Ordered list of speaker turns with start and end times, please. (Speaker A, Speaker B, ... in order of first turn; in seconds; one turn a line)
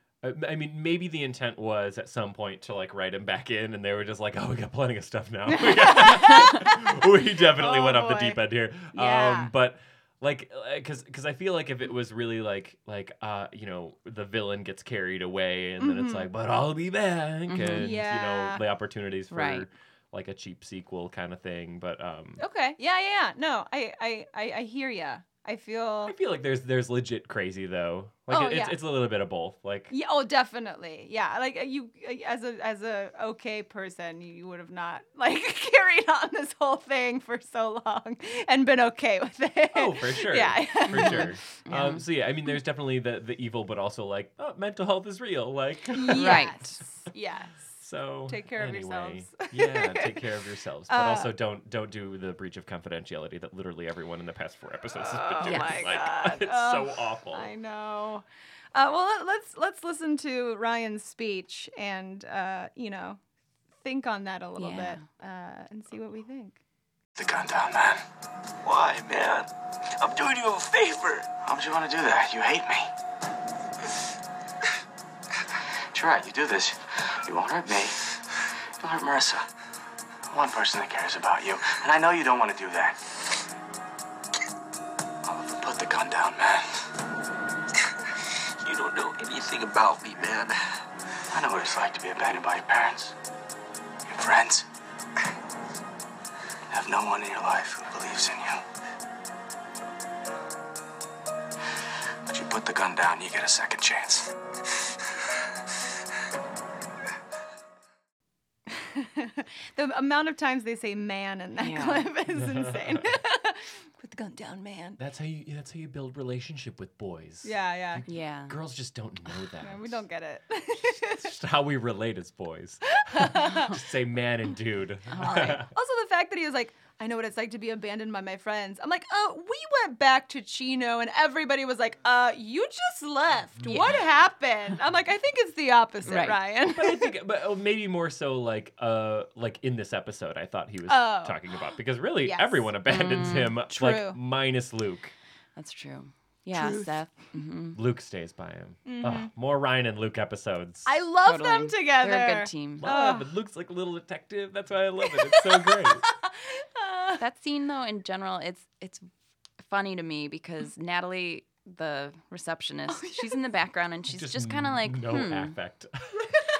Speaker A: 0.2-22.4
Speaker B: 5.5-9.5
Speaker B: 15.8-16.3
Speaker C: 17.5-17.9
Speaker B: 17.7-18.6
Speaker C: 19.3-19.7
Speaker B: 22.4-26.1
Speaker A: 26.1-29.9
Speaker B: 28.3-28.8
Speaker B: 29.9-41.4
Speaker A: 39.7-46.5
Speaker C: 40.9-42.0
Speaker B: 45.9-50.3
Speaker C: 46.1-46.6
Speaker A: 47.8-57.5
Speaker B: 50.9-51.3
Speaker B: 55.0-63.2
Speaker C: 55.4-55.7
Speaker B: 63.8-66.6
Speaker C: 64.6-65.0
Speaker D: 67.2-68.0
Speaker D: 68.6-72.9
Speaker D: 75.9-78.1
Speaker D: 78.8-79.5
Speaker D: 80.3-83.0
Speaker D: 85.2-86.8
Speaker D: 88.6-90.8
Speaker D: 91.3-93.2
Speaker D: 94.0-94.7
Speaker D: 96.7-98.6
Speaker D: 102.3-104.3
Speaker B: 108.7-115.0
Speaker C: 111.6-112.1
Speaker A: 112.3-113.2
Speaker A: 115.0-120.0
Speaker B: 117.4-118.0
Speaker C: 118.1-118.6
Speaker B: 119.6-121.3
Speaker A: 121.2-125.7
Speaker B: 123.0-123.8
Speaker C: 125.1-125.6
Speaker B: 125.2-137.1
Speaker C: 133.6-134.0
Speaker C: 136.1-136.4
Speaker A: 136.7-145.1
Speaker B: 140.9-141.4
Speaker B: 142.2-142.7
Speaker C: 142.9-143.6
Speaker B: 143.7-144.2
Speaker C: 145.6-147.8
Speaker B: 146.5-146.9
Speaker A: 147.8-150.9
Speaker B: 148.8-149.3
Speaker B: 150.8-153.3
Speaker C: 151.2-152.9
Speaker A: 152.8-156.1
Speaker B: 155.3-157.2
Speaker C: 157.2-159.1
Speaker C: 159.6-165.6
Speaker A: 164.1-166.3